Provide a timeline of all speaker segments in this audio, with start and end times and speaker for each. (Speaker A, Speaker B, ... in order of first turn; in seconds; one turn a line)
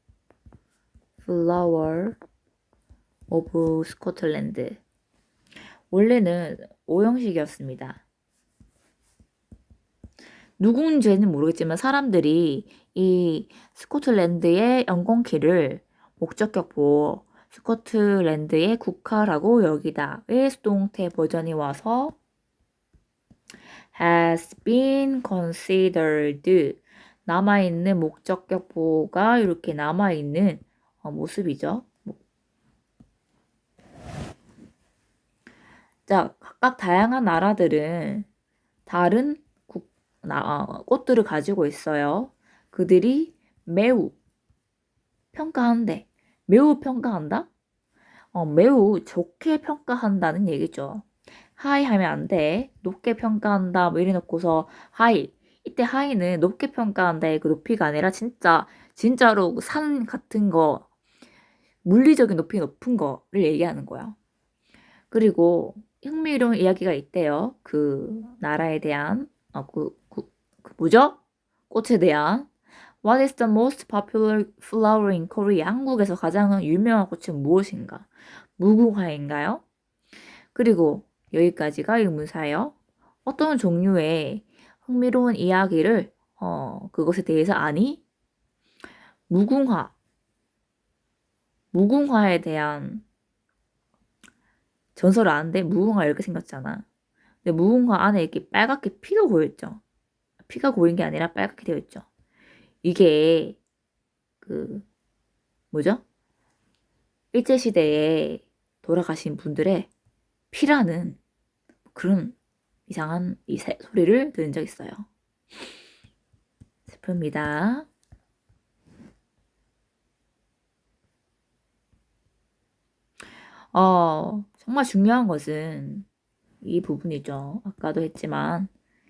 Speaker A: 1.2-2.2
Speaker A: 3.3-4.8
Speaker A: 5.9-8.0
Speaker A: 10.6-22.2
Speaker A: 23.9-32.2
Speaker A: 36.1-38.3
Speaker A: 38.9-44.1
Speaker A: 45.3-47.5
Speaker A: 48.3-51.1
Speaker A: 51.6-60.9
Speaker A: 61.9-64.2
Speaker A: 65.1-71.2
Speaker A: 71.7-72.5
Speaker A: 73.0-79.6
Speaker A: 80.5-82.8
Speaker A: 83.3-88.0
Speaker A: 89.3-89.9
Speaker A: 91.7-93.0
Speaker A: 95.0-96.8
Speaker A: 97.4-99.8
Speaker A: 100.4-102.0
Speaker A: 102.8-103.6
Speaker A: 104.4-104.9
Speaker A: 105.7-106.0
Speaker A: 107.3-109.9
Speaker A: 110.5-111.2
Speaker A: 111.9-112.4
Speaker A: 112.9-115.1
Speaker A: 116.9-117.9
Speaker A: 123.7-126.1
Speaker A: 126.6-128.7